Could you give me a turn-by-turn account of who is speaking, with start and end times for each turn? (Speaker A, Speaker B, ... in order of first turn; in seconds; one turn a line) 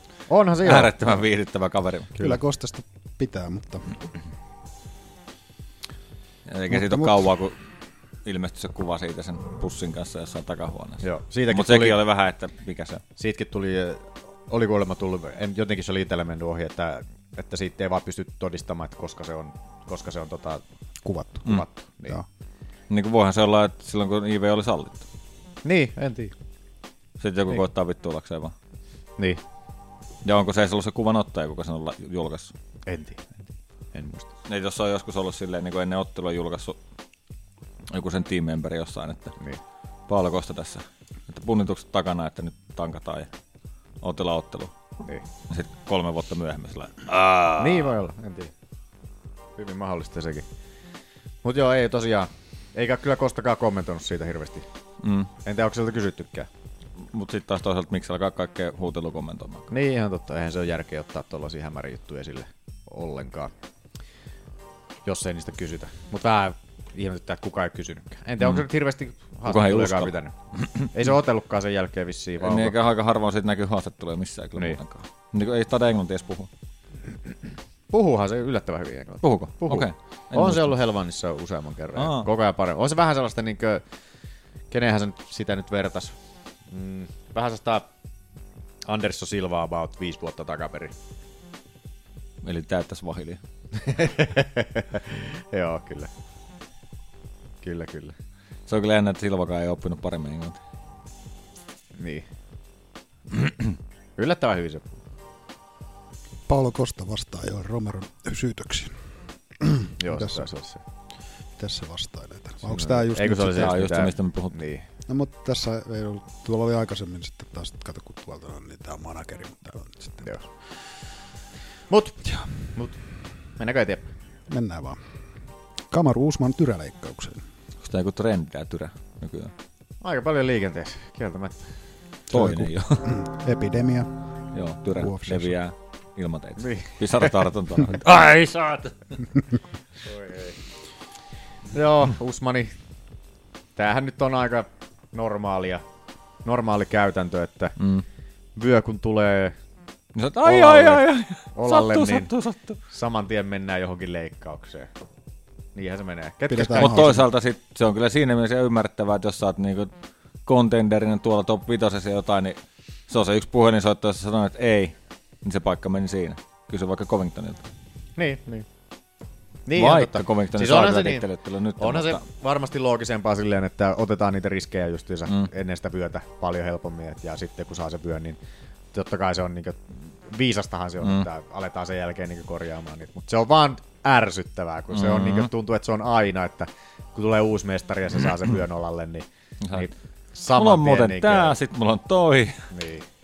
Speaker A: 0.3-1.2
Speaker B: 0.6-2.1
Speaker C: 2.2-3.9
Speaker B: 6.5-7.5
Speaker C: 6.7-7.1
Speaker B: 8.2-13.0
Speaker A: 11.0-12.0
Speaker A: 13.2-20.6
Speaker C: 21.0-22.2
Speaker A: 21.4-22.2
Speaker B: 22.9-25.0
Speaker A: 25.6-26.3
Speaker B: 27.2-28.5
Speaker B: 30.2-32.5
Speaker A: 32.9-33.4
Speaker A: 33.9-34.3
Speaker B: 34.5-36.8
Speaker B: 37.9-39.4
Speaker B: 40.1-43.3
Speaker B: 44.0-44.7
Speaker B: 45.5-47.9
Speaker A: 47.6-48.5
Speaker A: 49.5-50.5
Speaker A: 51.4-54.6
Speaker B: 55.0-55.3
Speaker A: 55.4-56.5
Speaker B: 57.1-59.7
Speaker A: 59.7-63.5
Speaker A: 65.0-72.8
Speaker B: 69.5-70.9
Speaker B: 72.4-76.5
Speaker A: 77.9-83.8
Speaker B: 79.2-80.7
Speaker B: 82.0-82.3
Speaker A: 84.7-86.1
Speaker A: 86.7-87.9
Speaker A: 88.8-90.9
Speaker B: 92.4-93.4
Speaker A: 93.8-96.1
Speaker A: 97.6-98.1
Speaker B: 98.7-100.6
Speaker A: 102.0-102.2
Speaker A: 104.2-105.0
Speaker C: 106.5-109.0
Speaker C: 109.6-110.5
Speaker A: 110.0-110.8
Speaker C: 111.5-113.7
Speaker A: 112.6-114.8
Speaker B: 113.4-114.5
Speaker C: 115.1-120.4
Speaker A: 121.9-122.2
Speaker A: 123.6-124.1
Speaker C: 124.5-125.0
Speaker C: 125.9-127.4
Speaker B: 127.8-129.5
Speaker A: 130.0-131.7
Speaker B: 132.3-133.1
Speaker C: 132.3-134.1
Speaker B: 134.5-139.0
Speaker C: 134.9-135.5
Speaker A: 136.6-137.4
Speaker A: 140.0-140.6
Speaker A: 141.7-142.7
Speaker A: 143.8-145.8
Speaker A: 146.4-147.8
Speaker B: 147.8-148.0
Speaker A: 148.6-149.5
Speaker B: 150.1-152.8
Speaker A: 150.4-152.3
Speaker A: 152.9-154.9
Speaker A: 155.7-157.2
Speaker C: 156.5-157.2
Speaker B: 156.8-159.9
Speaker B: 160.4-167.6
Speaker A: 168.2-168.7
Speaker A: 169.7-171.2
Speaker B: 169.8-172.2
Speaker A: 171.8-178.4
Speaker A: 178.9-191.6
Speaker B: 184.9-185.5
Speaker B: 189.6-189.9
Speaker B: 190.5-192.6
Speaker A: 192.7-193.1